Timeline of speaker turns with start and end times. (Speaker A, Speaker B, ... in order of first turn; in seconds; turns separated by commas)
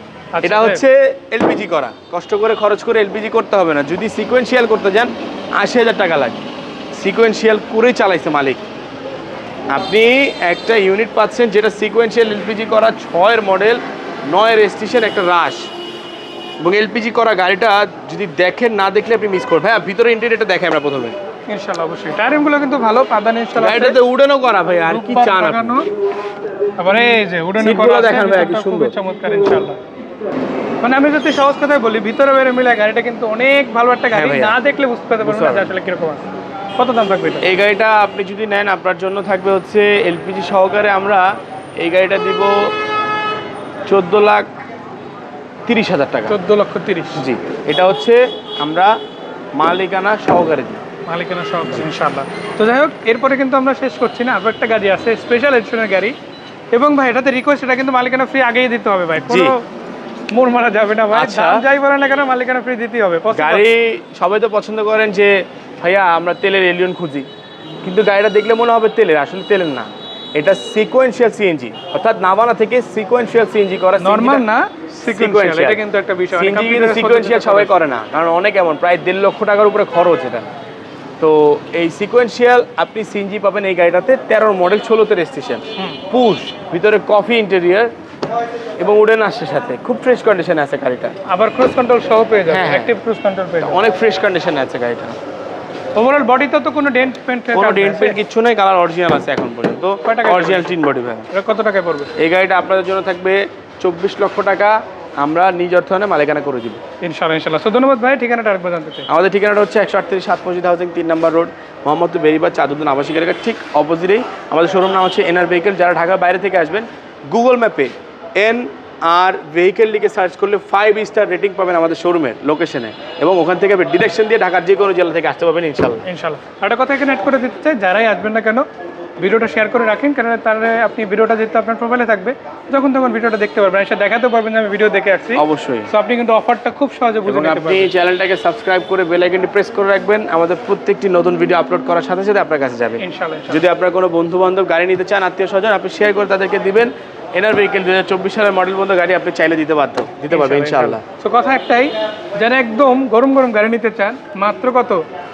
Speaker A: 0.3-0.8, Speaker B: 0.4-8.7, Speaker B: 9.7-15.7, Speaker B: 16.6-21.2, Speaker A: 21.5-24.0, Speaker B: 23.6-25.8, Speaker A: 24.9-25.9, Speaker A: 26.8-29.8, Speaker B: 27.6-28.9, Speaker A: 30.8-36.3, Speaker B: 34.1-34.6, Speaker B: 35.2-35.7, Speaker A: 36.8-37.5, Speaker B: 37.4-41.3, Speaker B: 41.8-42.7, Speaker B: 43.9-44.5, Speaker B: 45.7-46.4, Speaker A: 46.3-47.2, Speaker B: 47.2-49.0, Speaker B: 49.6-50.8, Speaker A: 51.1-56.1, Speaker A: 56.7-59.6, Speaker B: 59.3-59.5, Speaker A: 60.3-63.7, Speaker B: 61.1-61.6, Speaker B: 63.3-67.3, Speaker B: 67.8-75.8, Speaker A: 74.0-77.7, Speaker B: 76.3-80.5, Speaker B: 81.2-87.9, Speaker B: 88.8-91.1, Speaker A: 91.3-93.8, Speaker B: 92.5-92.9, Speaker B: 93.6-95.2, Speaker A: 96.0-98.2, Speaker B: 97.5-101.3, Speaker A: 100.0-100.8, Speaker A: 101.3-102.1, Speaker B: 102.2-106.8, Speaker A: 107.0-109.1, Speaker B: 109.1-126.0, Speaker A: 126.0-128.7, Speaker A: 129.2-137.9, Speaker B: 135.4-135.9, Speaker B: 137.3-151.0, Speaker A: 143.0-143.7, Speaker A: 150.3-155.0